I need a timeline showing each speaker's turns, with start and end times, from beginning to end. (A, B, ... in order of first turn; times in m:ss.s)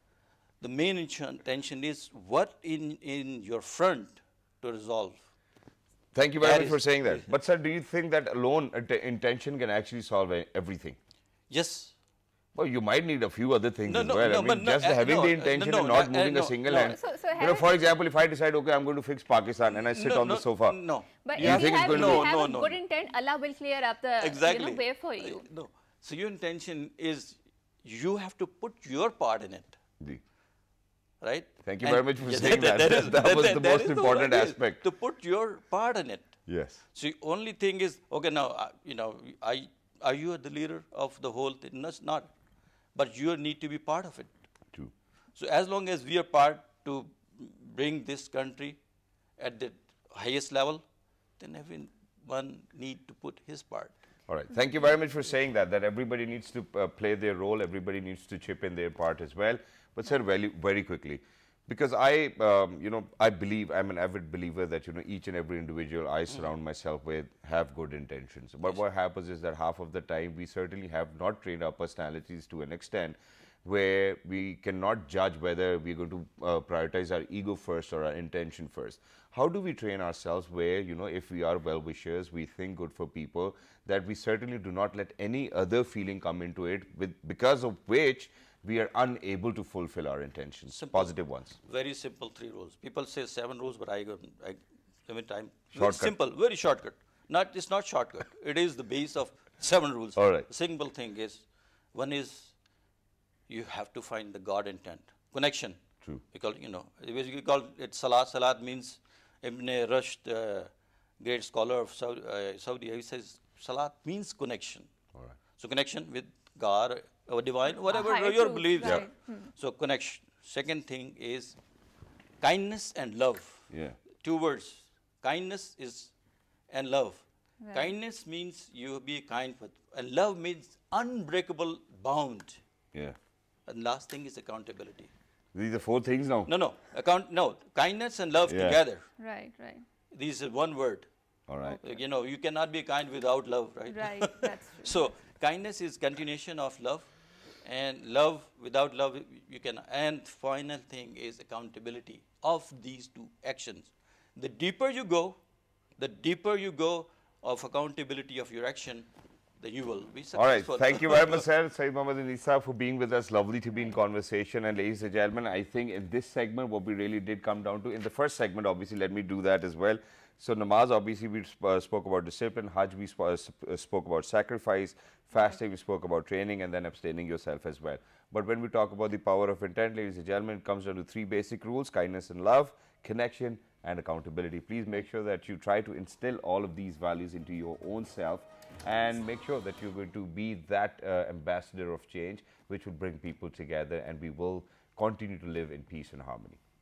0:00.6-0:05.3 A
0:06.1-0:11.0 B
0:06.4-0:07.3 A
0:11.5-0:12.0 A
0:12.6-0:20.8 B
0:13.9-0:17.0 A
0:16.8-0:17.7 C
0:19.9-0:22.8 A
0:21.2-0:25.5 C
0:21.4-0:22.4 B
0:24.2-0:29.8 A
0:31.2-0:42.3 A
0:31.6-0:34.8 B
0:36.5-0:36.8 B
0:42.9-0:44.4 A
0:45.3-0:48.8 A
0:49.4-0:50.9 A
0:51.4-0:53.9 A
0:54.3-1:31.6 B
1:30.7-1:42.6 A
1:35.7-1:36.1 B
1:40.2-1:40.5 B
1:43.5-1:54.9 A
1:55.5-2:01.6 A
1:57.7-1:59.5 C
2:02.4-2:06.1 A
2:03.7-2:04.0 B
2:06.7-2:12.6 A
2:07.6-2:07.9 C
2:13.6-2:15.1 A
2:15.5-2:16.5 B
2:16.5-2:19.1 A
2:18.5-2:18.8 B
2:19.2-2:19.8 C
2:20.1-2:21.1 A
2:21.5-2:21.8 B
2:21.6-2:22.0 C
2:21.8-2:35.4 A
2:23.9-2:25.1 C
2:36.0-2:41.4 A
2:40.3-3:16.6 B